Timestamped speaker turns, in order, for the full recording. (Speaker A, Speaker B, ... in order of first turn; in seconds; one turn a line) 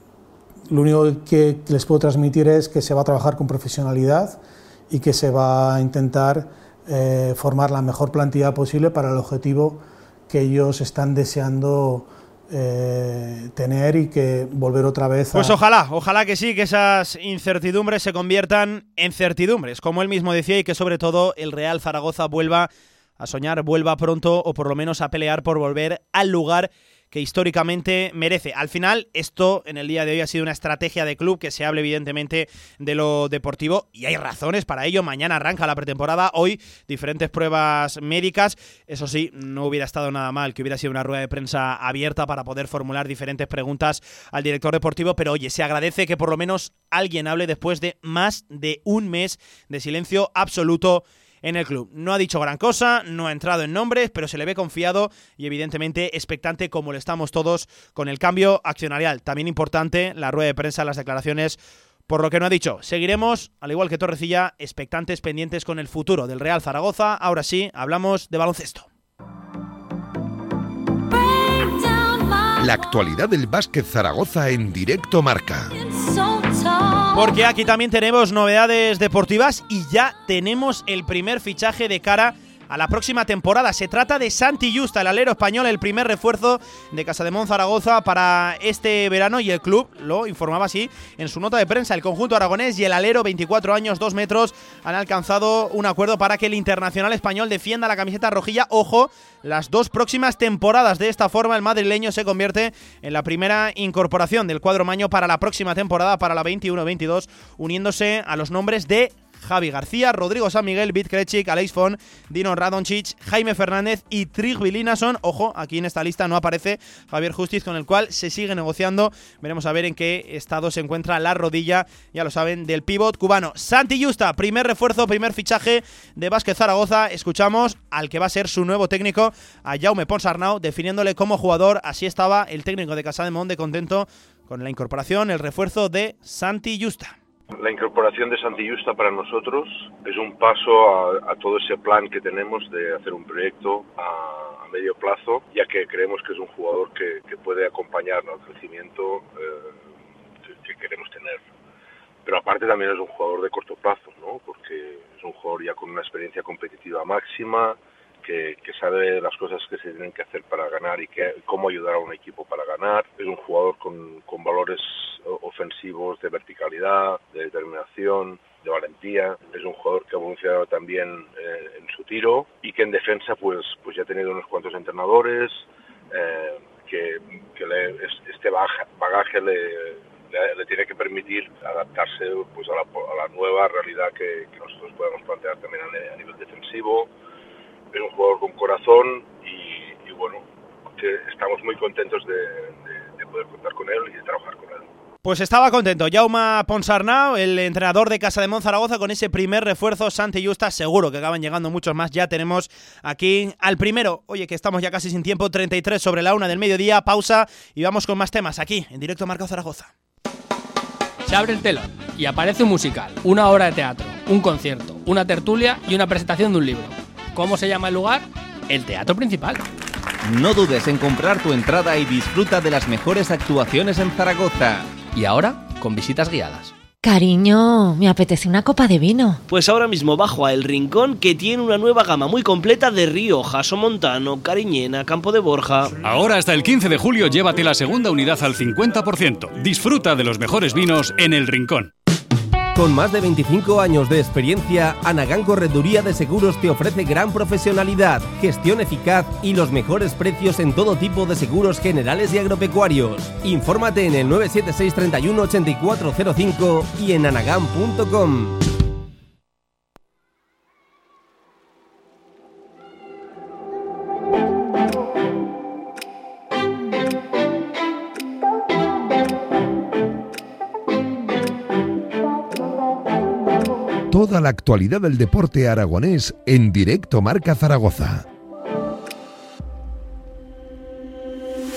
Speaker A: 0.7-15.6
Speaker B: 15.3-68.9
Speaker C: 72.5-75.7
Speaker B: 77.1-137.1
Speaker D: 137.6-149.8
Speaker D: 150.4-151.4
Speaker D: 152.2-187.1
Speaker D: 187.9-190.4
Speaker D: 190.9-194.9
Speaker B: 195.2-209.9
Speaker E: 211.3-219.7
Speaker F: 220.3-225.1
Speaker E: 225.2-226.5
Speaker F: 225.6-226.7
Speaker G: 227.1-229.4
Speaker H: 229.5-236.0
Speaker I: 236.0-241.9
Speaker F: 242.7-258.6
Speaker C: 274.1-278.2